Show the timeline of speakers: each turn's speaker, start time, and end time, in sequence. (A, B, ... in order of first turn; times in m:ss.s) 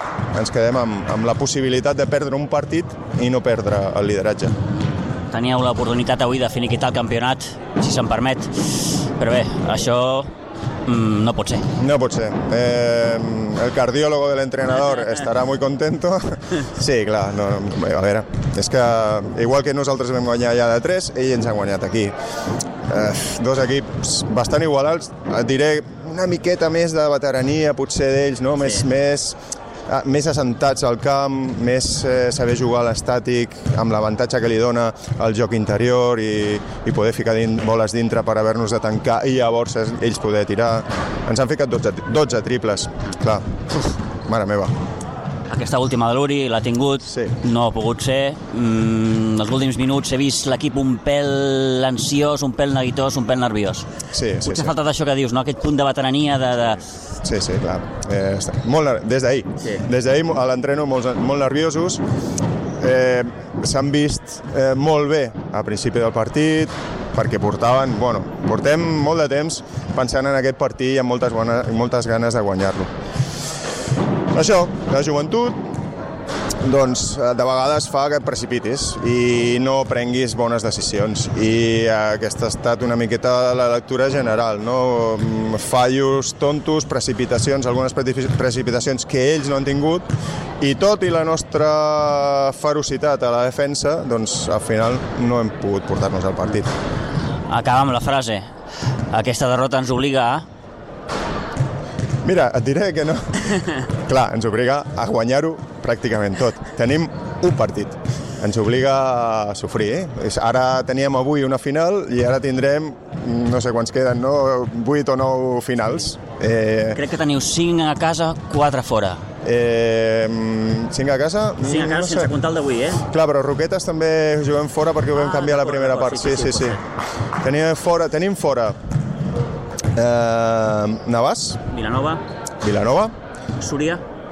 0:00.3-0:04.5 A
0:05.3-0:10.3 B
0:10.8-0:11.7 B
0:11.8-0:22.1 A
0:22.9-0:29.4 A
0:29.9-0:43.6 A
0:44.2-0:44.7 A
0:45.5-0:53.9 B
0:47.1-0:47.3 A
0:54.1-0:54.7 A
0:54.4-0:56.8 B
0:57.2-1:02.0 A
1:02.8-1:12.9 A
1:14.3-1:15.6 A
1:16.6-1:30.0 A
1:30.6-1:36.7 A
1:37.5-1:38.5 B
1:39.1-1:40.5 B
1:42.2-1:57.0 A
1:56.9-1:59.2 B
1:59.4-2:02.3 A
2:01.6-2:03.0 B
2:03.1-2:06.8 A
2:05.1-2:06.8 B
2:07.4-2:08.7 A
2:10.0-2:11.6 A
2:11.7-2:12.2 B
2:12.6-2:13.1 A
2:13.6-2:14.0 B